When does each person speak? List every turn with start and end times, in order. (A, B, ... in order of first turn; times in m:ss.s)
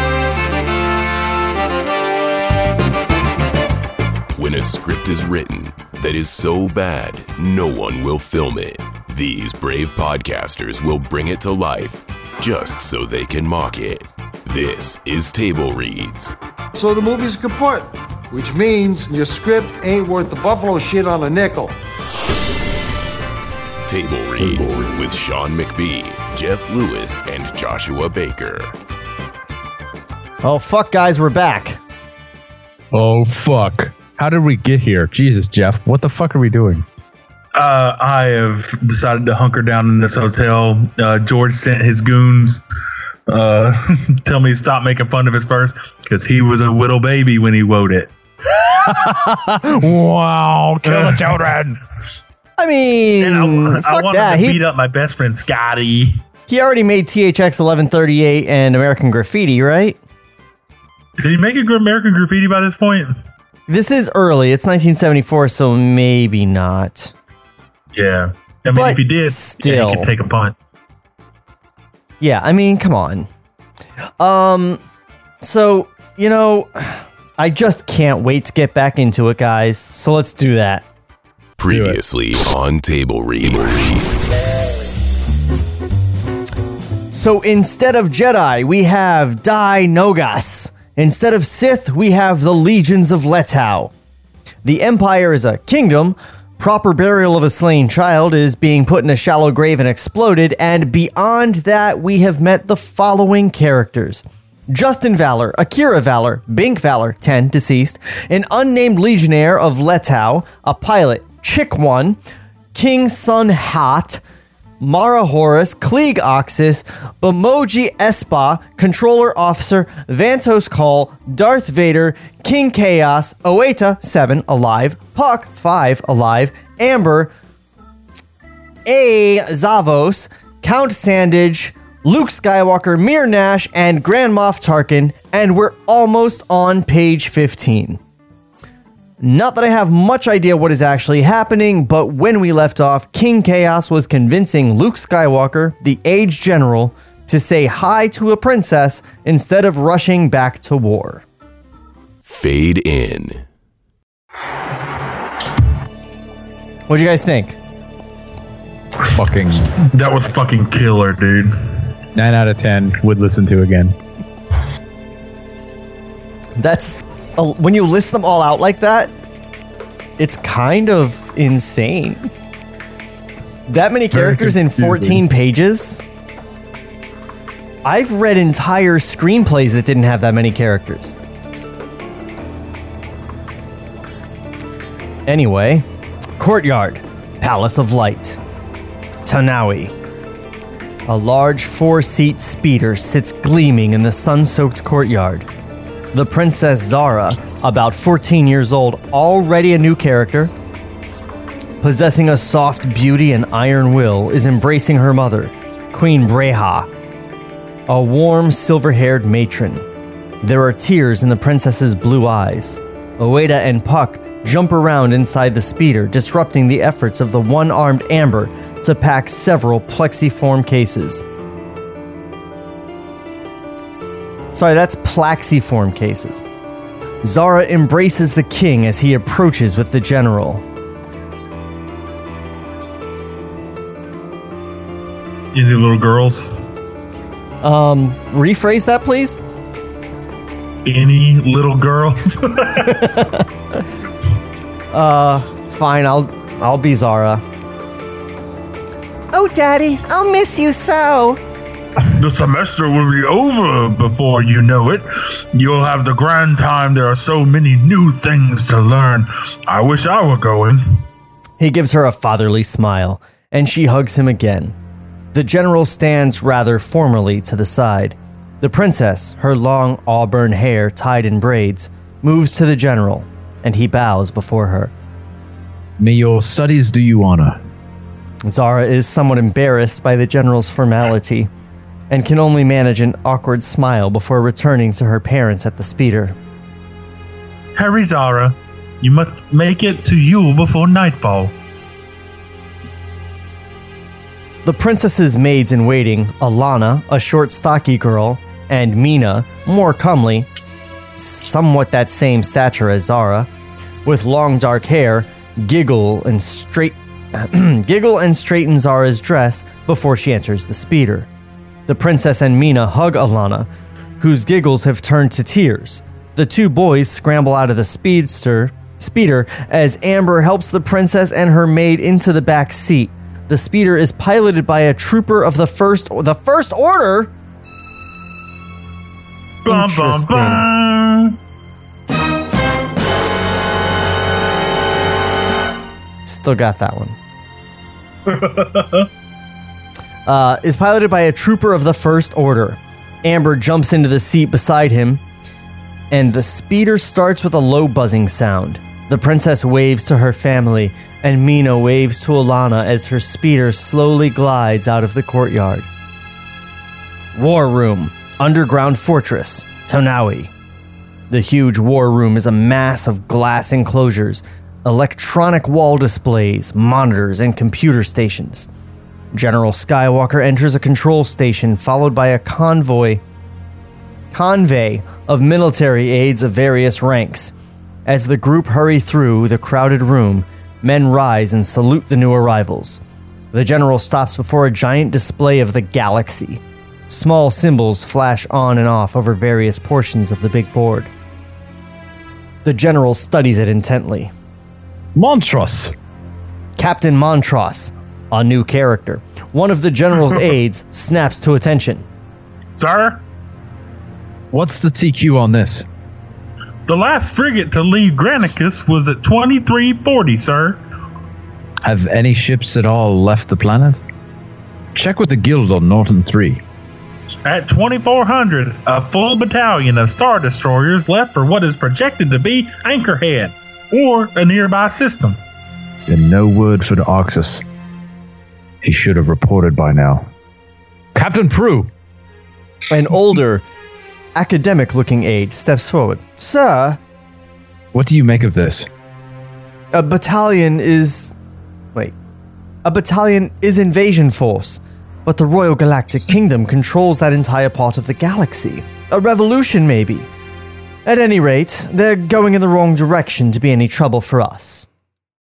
0:04.3-0:16.4 A
0:16.7-0:21.7 B
0:23.8-0:28.7 A
0:30.4-0:31.8 C
0:32.9-0:36.8 D
0:37.6-0:42.6 E
0:43.3-0:48.1 E
0:48.6-0:51.8 D
0:50.8-0:51.4 E
0:52.6-0:54.6 C
0:53.2-0:56.2 E
0:56.5-1:00.0 C
1:01.2-1:03.2 E
1:03.7-1:07.1 C
1:07.9-1:10.6 E
1:08.7-1:10.1 C
1:12.2-1:13.3 C
1:14.2-1:14.8 C
1:15.4-1:20.8 C
1:21.6-1:24.3 A
1:21.7-1:22.0 D
1:27.1-1:33.9 C
1:34.6-1:52.2 C
1:52.7-1:54.2 C
1:54.8-2:07.3 C
2:08.8-2:18.0 C
2:19.2-2:31.2 C
2:32.2-2:33.4 A
2:36.9-2:37.6 C
2:39.1-2:39.7 D
2:39.8-2:41.5 E
2:42.1-2:44.0 D
2:46.6-2:49.1 C
2:50.2-2:52.3 C
2:53.7-2:56.0 C
2:54.1-2:55.2 D
2:57.8-3:01.1 C
3:05.3-3:05.8 C
3:06.4-3:08.4 C
3:09.2-3:09.9 C
3:11.1-3:15.5 C
3:16.1-3:20.5 C
3:21.8-3:26.9 C
3:27.9-3:29.8 C
3:30.4-3:41.2 C
3:44.5-3:46.4 C
3:47.2-3:50.6 C
3:55.5-3:56.5 E
3:57.6-3:59.4 C
4:00.8-4:03.0 E
4:02.8-4:03.4 C
4:04.9-4:07.4 C
4:09.3-4:11.4 C
4:12.1-4:21.0 E
4:21.6-4:24.7 C
4:25.3-4:34.9 C
4:36.0-4:37.6 D
4:38.4-4:41.5 C
4:42.1-4:46.4 C
4:47.8-4:51.5 E
4:54.6-5:00.5 C
5:01.2-5:03.5 C
5:04.0-5:11.3 C
5:11.9-5:13.7 C
5:14.2-5:27.3 C
5:29.6-5:31.4 E
5:29.7-5:30.6 C
5:36.2-5:37.2 C
5:38.2-5:39.1 E
5:40.3-5:45.2 C
5:46.1-5:55.9 C
5:57.3-6:00.5 C
6:01.3-6:08.7 C
6:09.3-6:13.2 C
6:14.3-6:17.5 C
6:18.0-6:23.0 C
6:23.5-6:31.1 C
6:32.6-6:34.3 C
6:35.1-6:35.9 D
6:36.8-6:42.0 C
6:42.8-6:43.2 E
6:44.5-6:45.8 D
6:46.9-6:50.8 E
6:51.8-6:54.0 D
6:54.9-6:56.6 D
6:57.4-7:05.4 E
7:06.1-7:07.6 D
7:08.8-7:10.3 D
7:11.1-7:11.9 D
7:12.9-7:13.6 C
7:14.3-7:17.0 C
7:17.9-7:18.9 D
7:19.9-7:21.3 C
7:22.8-7:30.3 C
7:31.0-7:34.9 C